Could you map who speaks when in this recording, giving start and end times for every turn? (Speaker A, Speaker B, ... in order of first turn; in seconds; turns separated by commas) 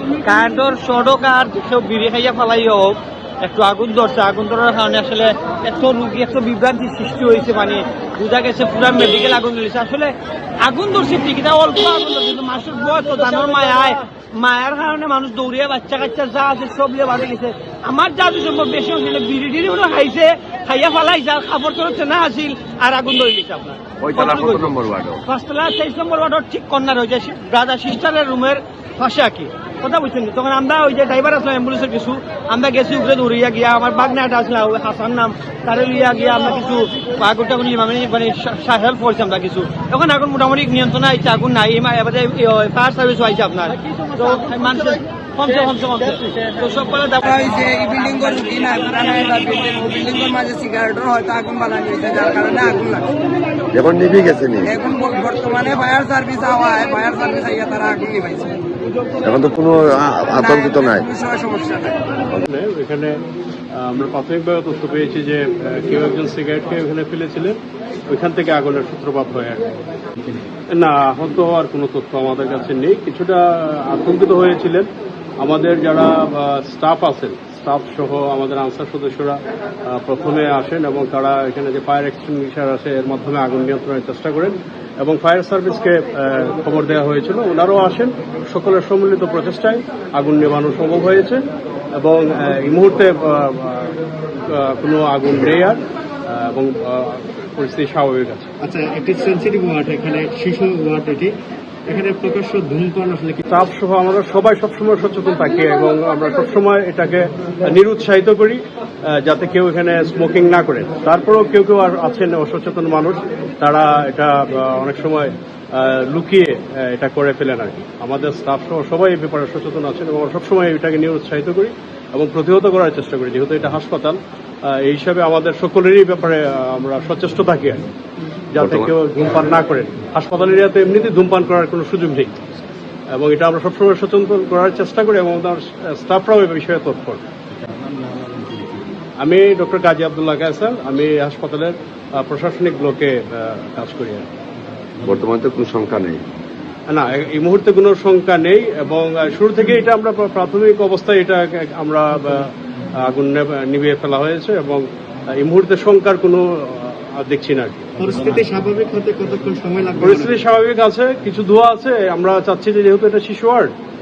Speaker A: 0.2-47.5, Speaker B: 24.0-25.2, Speaker C: 47.2-53.2, Speaker B: 53.7-54.7, Speaker C: 54.7-58.6, Speaker B: 59.2-61.1, Speaker C: 60.4-62.0, Speaker D: 62.5-63.2, Speaker D: 63.7-69.7, Speaker D: 70.7-74.9, Speaker D: 75.4-79.4, Speaker D: 79.9-91.5, Speaker D: 92.0-98.5, Speaker E: 98.6-101.3, Speaker E: 101.9-103.4, Speaker D: 103.5-127.8, Speaker D: 128.5-132.3, Speaker B: 128.6-128.9, Speaker D: 133.1-137.2, Speaker D: 139.2-144.2, Speaker B: 145.0-146.2, Speaker D: 146.9-152.5, Speaker D: 153.0-157.9, Speaker E: 158.0-160.4, Speaker D: 160.0-163.7